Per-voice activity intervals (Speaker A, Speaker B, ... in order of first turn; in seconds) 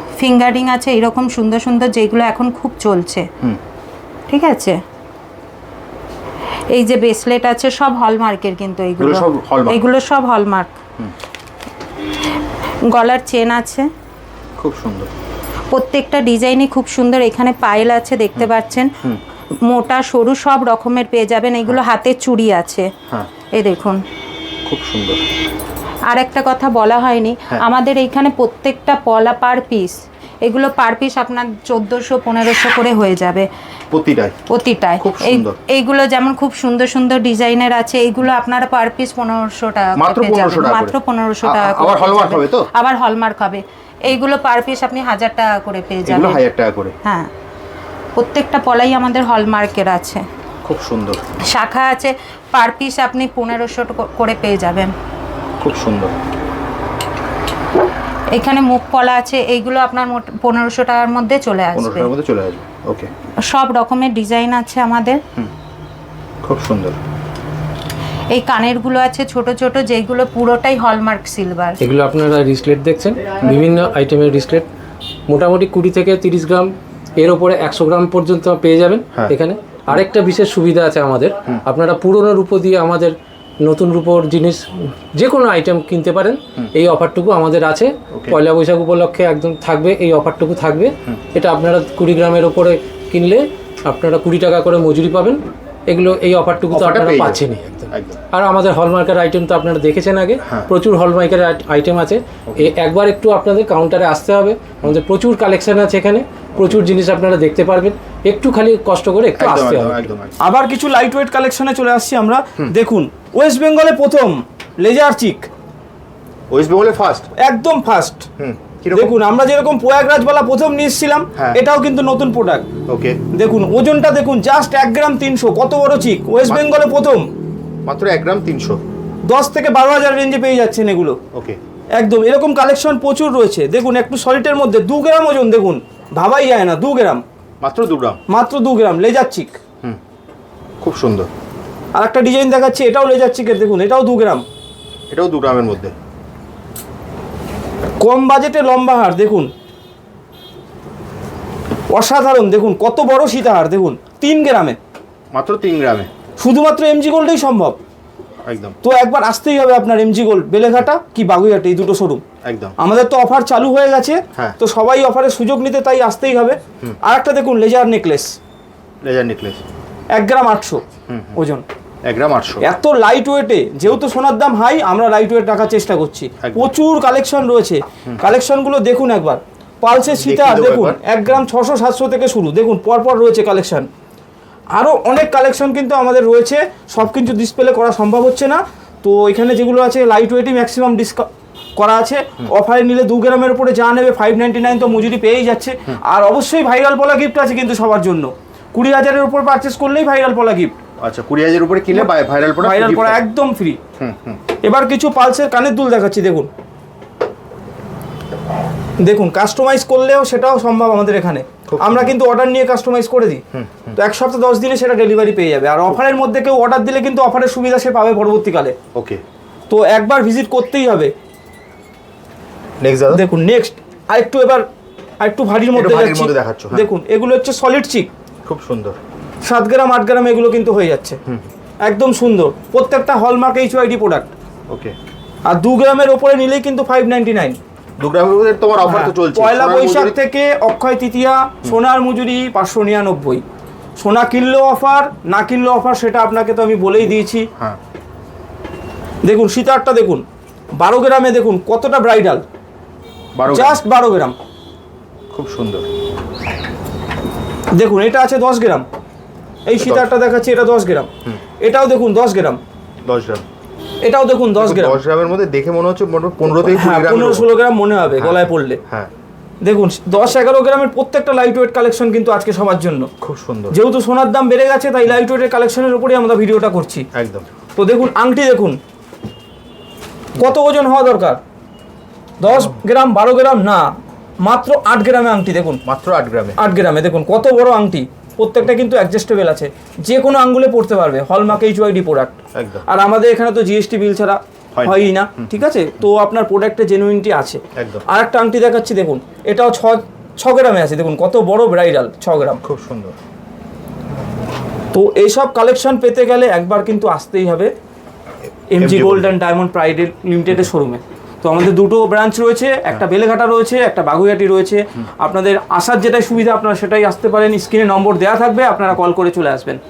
Speaker A: 0.2-3.3, 4.3-4.8, 6.7-10.8, 12.8-13.9, 15.7-18.9, 19.6-22.9, 23.5-24.0, 26.1-33.5, 34.5-46.4, 47.0-47.3, 48.1-50.2, 51.5-54.9, 58.3-62.1, 63.5-65.2, 68.3-71.8
Speaker B: 9.0-9.8, 14.6-15.1, 24.6-25.2, 33.9-34.4, 35.0-35.6, 40.0-42.7, 46.0-46.9, 50.6-51.2, 55.6-56.1, 61.7-63.1, 66.4-67.0, 88.1-88.4, 96.7-98.2, 100.4-100.7, 109.4-110.4, 116.5-117.3, 118.4-119.1, 122.9-123.2, 127.8-128.8, 131.3-131.6, 137.6-138.2, 140.8-141.3, 145.1-145.9, 155.3-156.1, 158.5-158.7, 162.4-162.7, 169.0-169.6, 171.1-171.4, 172.0-172.7, 176.4-176.7, 180.1-181.0, 201.0-203.2, 204.0-204.4, 211.7-212.1, 213.5-214.0, 218.9-219.2, 222.8-223.2, 225.7-226.9, 228.4-229.0, 234.7-234.9, 238.0-240.2, 253.3-253.8, 255.3-255.9, 259.8-260.1, 263.1-263.4, 264.6-267.5, 268.2-269.1, 273.2-273.8, 277.1-277.4, 282.5-282.8, 285.8-286.6, 292.5-292.9, 294.7-295.6, 297.8-298.0, 302.6-303.1, 308.8-309.3
Speaker C: 71.8-74.7, 75.3-110.1
Speaker D: 110.4-115.5, 117.4-118.3, 118.9-122.7, 123.3-127.3, 129.2-131.2, 132.0-137.2, 138.3-139.6, 141.9-144.4, 148.0-149.5, 151.9-154.8, 156.4-157.8, 158.8-162.2, 162.8-168.3, 170.1-170.8, 171.3-171.6, 172.6-183.9, 184.7-200.7, 201.9-203.8, 204.6-206.5, 209.0-213.4, 213.9-218.8, 219.7-221.1, 223.1-224.7, 225.2-228.1, 229.4-231.2, 231.8-234.3, 235.4-237.6, 238.8-243.4, 244.0-247.5, 249.2-250.2, 250.8-252.4, 253.5-254.3, 257.7-258.9, 259.6-261.1, 261.6-262.6, 264.0-265.0, 266.6-268.8, 269.6-273.1, 273.7-277.1, 277.8-278.8, 280.4-281.4, 282.4-283.9, 284.4-285.8, 286.6-302.6, 304.9-307.7, 308.7-319.8